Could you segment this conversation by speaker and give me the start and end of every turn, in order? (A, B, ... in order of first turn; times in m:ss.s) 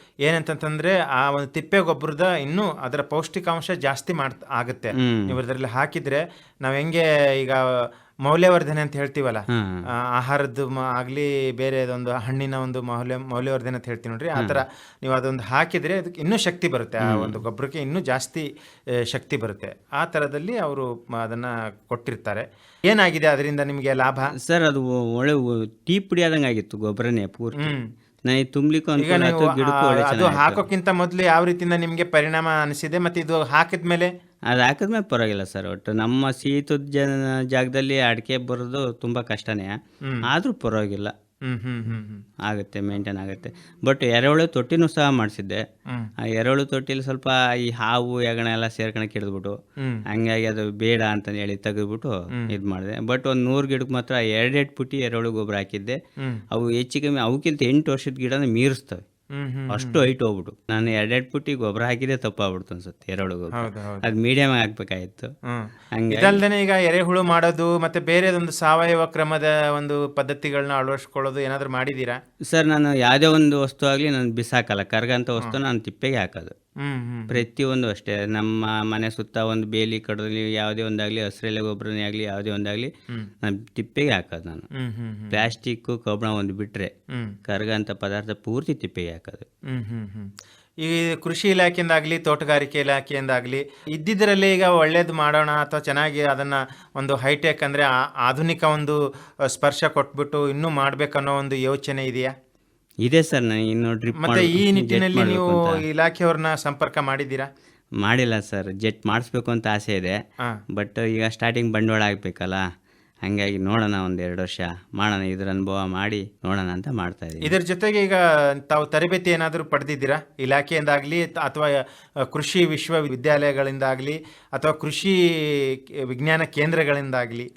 0:00.2-0:07.6 A
0:05.0-0:05.4 B
0:08.2-0:09.4 A
0:09.5-0:09.8 B
0:10.1-0:18.4 A
0:17.0-0:17.4 B
0:19.1-0:24.3 A
0:24.4-0:27.7 B
0:27.6-0:27.9 A
0:28.3-0:30.6 B
0:29.0-0:34.1 A
0:34.5-0:39.7 B
0:40.3-0:41.1 B
0:41.5-0:42.2 A
0:42.5-0:45.6 B
0:46.3-0:49.6 B
0:50.1-0:56.0 B
0:56.5-0:59.0 B
0:59.4-1:00.0 A
0:59.7-1:05.3 B
1:03.5-1:04.1 A
1:05.5-1:12.2 A
1:06.0-1:06.4 B
1:12.5-1:16.5 B
1:16.8-1:17.4 A
1:17.3-1:22.9 B
1:23.4-1:24.6 B
1:24.7-1:25.4 A
1:25.3-1:26.9 B
1:27.5-1:29.4 B
1:29.7-1:39.0 A
1:39.5-1:42.3 A
1:43.0-1:45.8 B
1:44.2-1:47.5 A
1:48.0-1:50.2 B
1:50.7-1:52.6 B
1:53.2-1:57.5 B
1:57.4-2:07.5 A